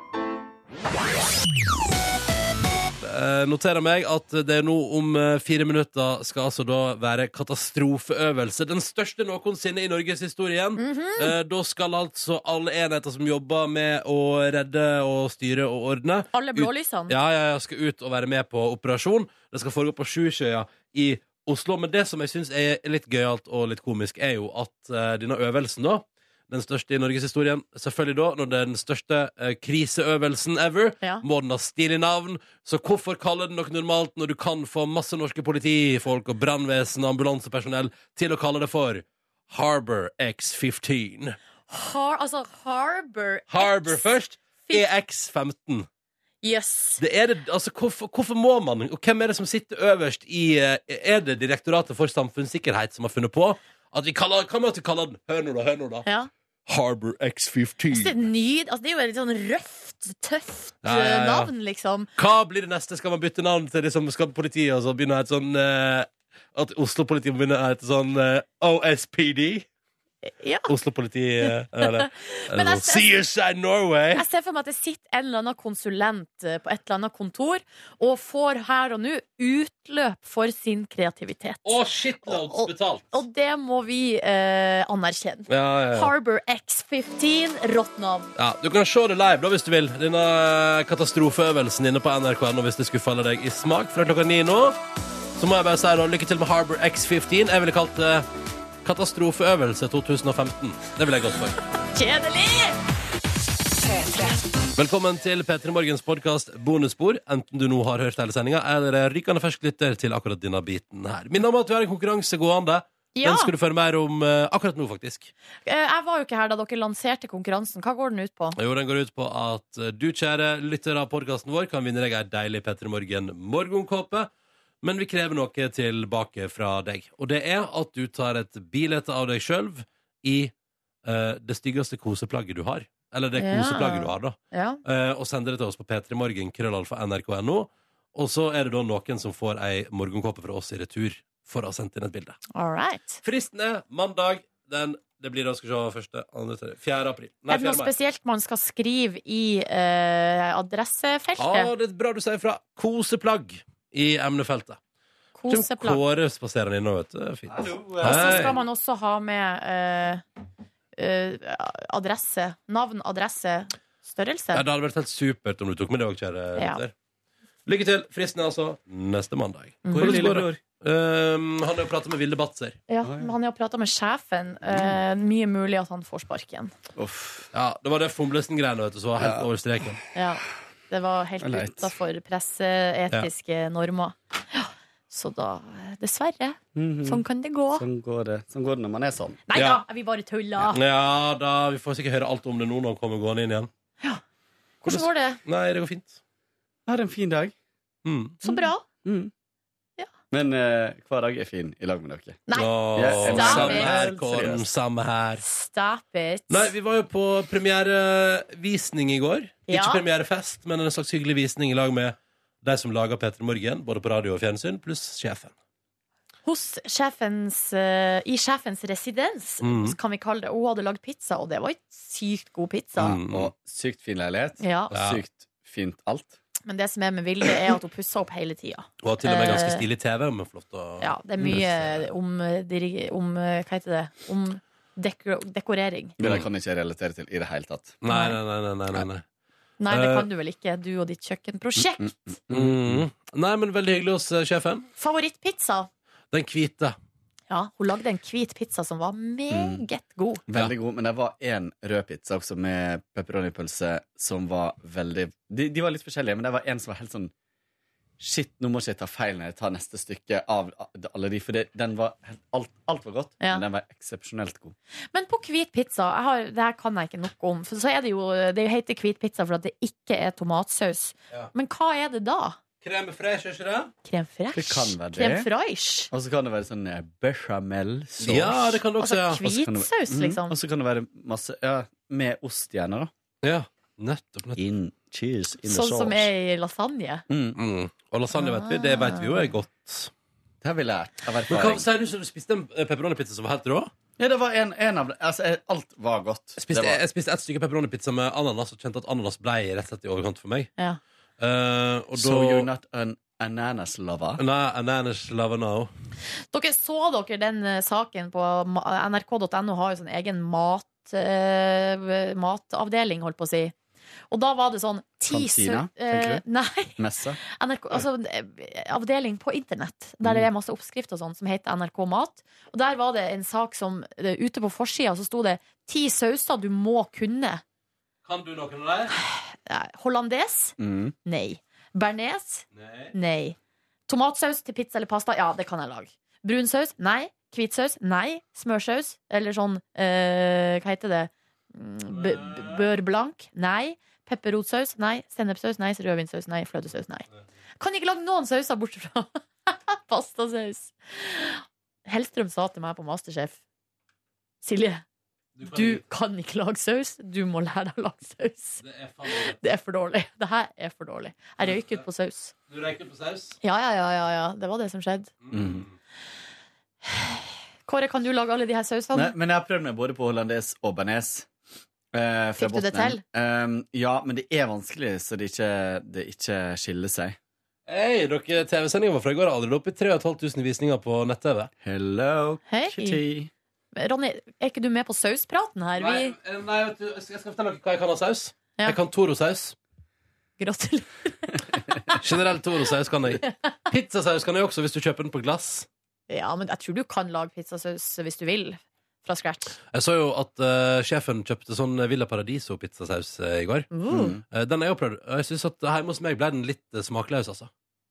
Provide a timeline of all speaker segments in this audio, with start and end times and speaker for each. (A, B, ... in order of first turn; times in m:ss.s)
0:03.0-0:41.4 A
0:10.8-0:11.3 B
0:16.3-0:17.1 B
0:41.7-0:44.0 B
0:43.5-0:45.9 A
0:46.4-0:47.0 B
0:47.0-0:56.0 A
0:56.0-0:56.3 B
0:56.7-0:58.1 A
0:57.9-1:02.1 B
1:00.8-1:01.5 A
1:02.2-1:09.7 A
1:10.2-1:10.7 B
1:10.7-1:14.2 A
1:11.4-1:13.0 B
1:14.1-1:28.3 B
1:21.6-1:23.2 A
1:25.5-1:26.1 A
1:28.4-1:34.8 A
1:35.4-1:38.3 A
1:38.8-1:41.6 A
1:41.9-1:42.8 B
1:44.8-1:55.3 A
1:53.1-1:53.5 B
1:55.6-1:58.6 B
1:58.6-2:04.3 A
2:04.8-2:10.5 A
2:11.0-2:22.4 A
2:13.4-2:14.8 B
2:22.5-2:23.2 B
2:23.2-2:27.9 A
2:27.5-2:31.7 B
2:31.4-2:34.8 A
2:35.4-2:36.0 B
2:35.5-2:38.6 A
2:37.5-2:38.5 C
2:38.0-2:40.2 B
2:41.0-2:44.6 B
2:44.5-2:46.9 A
2:46.6-2:46.8 B
2:47.6-2:52.8 A
2:49.8-2:50.4 B
2:49.9-2:50.6 C
2:52.9-2:56.7 B
2:53.0-2:53.3 C
2:57.0-2:57.5 C
2:57.5-3:00.0 A
2:59.2-2:59.5 C
3:00.1-3:07.8 B
3:01.4-3:01.9 C
3:06.7-3:09.4 C
3:09.5-3:10.8 B
3:09.5-3:09.8 A
3:10.6-3:13.7 A
3:14.8-3:15.4 B
3:14.8-3:16.2 A
3:16.9-3:17.5 C
3:18.0-3:18.4 A
3:18.4-3:18.8 B
3:19.0-3:19.3 C
3:20.3-3:24.7 C
3:22.5-3:24.0 B
3:22.5-3:25.4 A
3:25.4-3:26.7 B
3:26.5-3:35.5 A
3:29.7-3:30.0 B
3:36.4-3:43.2 B
3:39.6-3:40.0 A
3:43.0-3:43.5 A
3:43.1-3:46.4 C
3:44.6-3:45.0 B
3:44.9-3:45.2 A
3:46.6-3:49.8 B
3:49.0-3:52.0 A
3:51.0-3:56.2 B
3:56.2-3:58.0 C
3:56.2-3:56.5 A
3:58.0-3:59.2 A
3:58.1-3:58.4 B
3:59.8-4:02.4 B
3:59.9-4:00.3 A
4:01.8-4:03.0 C
4:02.5-4:04.9 A
4:05.0-4:05.9 B
4:06.3-4:07.0 A
4:07.5-4:10.4 B
4:09.5-4:09.8 C
4:10.5-4:17.3 C
4:18.2-4:24.7 C
4:25.1-4:32.6 B
4:32.8-4:33.9 A
4:34.0-4:36.1 B
4:34.5-4:35.5 C
4:36.1-4:38.8 C
4:38.2-4:39.5 A
4:39.0-4:40.6 B
4:39.5-4:43.1 C
4:43.4-4:44.6 A
4:44.6-4:46.3 C
4:45.6-4:47.2 B
4:47.3-4:47.6 C
4:47.6-4:50.1 A
4:48.4-4:49.5 B
4:50.6-4:51.9 C
4:51.5-4:53.9 A
4:54.2-4:57.0 C
4:56.6-5:00.7 A
5:01.4-5:02.7 A
5:02.1-5:04.4 C
5:04.4-5:05.9 A
5:06.5-5:13.7 B
5:14.3-5:27.6 B
5:15.3-5:16.4 C
5:17.0-5:17.4 C
5:28.2-5:29.1 A
5:29.1-5:33.6 B
5:30.8-5:31.1 C
5:32.7-5:33.1 A
5:34.1-5:47.3 B
5:42.1-5:42.8 A
5:47.8-5:53.6 B
5:54.6-5:55.0 B
5:55.6-5:56.0 A
5:55.6-6:02.5 B
5:58.8-5:59.6 A
6:01.6-6:02.0 A
6:02.7-6:03.6 A
6:03.6-6:05.3 B
6:05.4-6:05.9 A
6:05.5-6:05.8 C
6:07.0-6:09.3 B
6:09.1-6:11.5 C
6:12.1-6:17.4 C
6:12.6-6:13.2 B
6:17.9-6:21.7 A
6:21.8-6:23.5 C
6:22.7-6:23.2 B
6:24.0-6:26.3 B
6:26.0-6:29.8 A
6:30.6-6:32.2 B
6:32.2-6:35.9 A
6:36.3-6:39.8 B
6:39.9-6:43.9 A
6:43.9-6:44.4 B
6:44.1-6:44.4 C
6:44.5-6:47.7 A